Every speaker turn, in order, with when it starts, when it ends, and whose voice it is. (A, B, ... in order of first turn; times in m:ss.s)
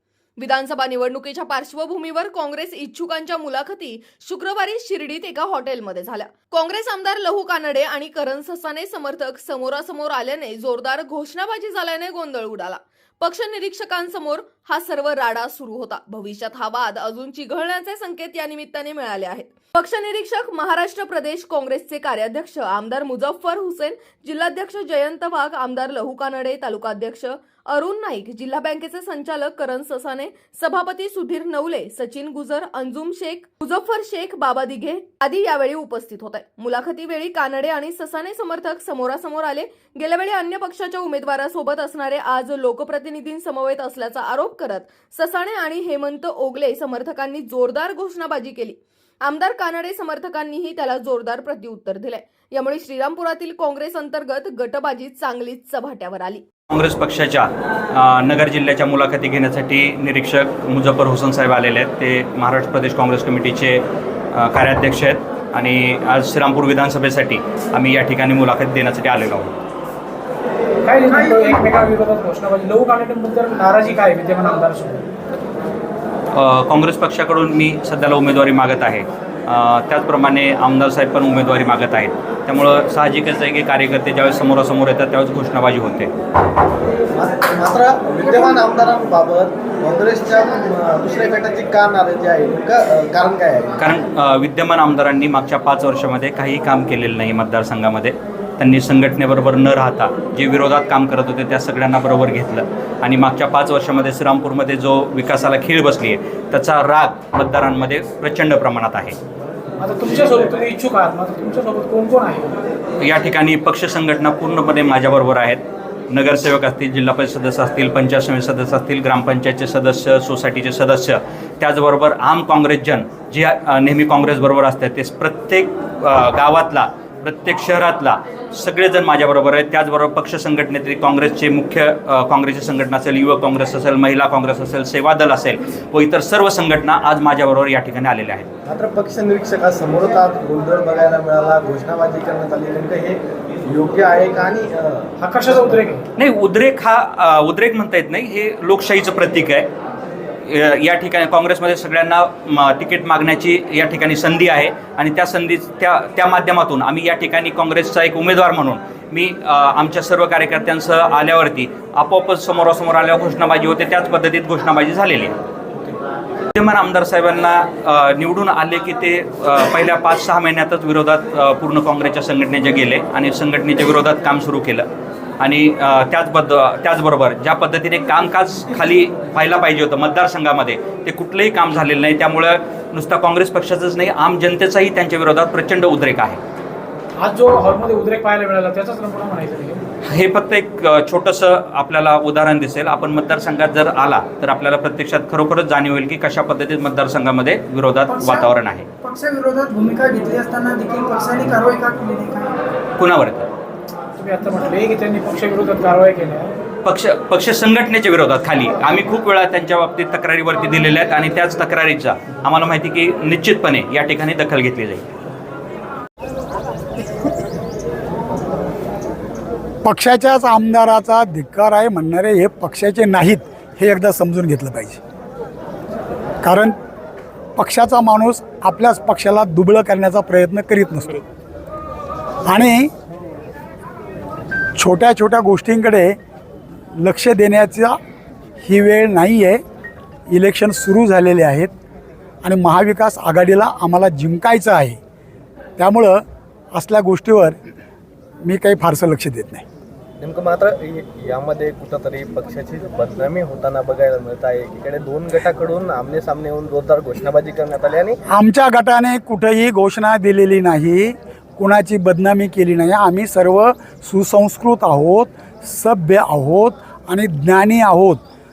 0:00.4-0:56.4 A
0:56.7-1:09.6 B
1:10.8-1:15.0 C
1:16.3-1:26.1 B
1:27.1-1:33.8 D
1:33.8-1:49.2 B
1:49.8-1:52.6 C
1:53.0-2:18.5 B
2:18.7-2:25.1 D
2:25.2-2:26.0 C
2:26.2-2:29.7 B
2:30.4-2:45.4 B
2:46.5-2:54.9 B
2:55.4-3:06.4 B
3:07.2-3:09.8 C
3:10.0-3:18.9 B
3:18.1-3:18.5 E
3:19.0-3:22.6 E
3:23.0-3:23.5 B
3:24.2-3:26.6 C
3:26.8-3:35.1 B
3:39.8-3:45.0 F
3:46.4-3:46.8 F
3:47.6-3:51.2 F
3:52.5-3:52.9 F
3:54.8-3:56.2 F
3:57.0-3:58.0 F
3:58.6-3:59.6 F
4:00.3-4:01.7 F
4:02.4-4:05.0 F
4:05.8-4:06.2 F
4:06.8-4:07.6 F
4:08.4-4:09.6 F
4:10.2-4:18.2 D
4:18.3-4:28.2 F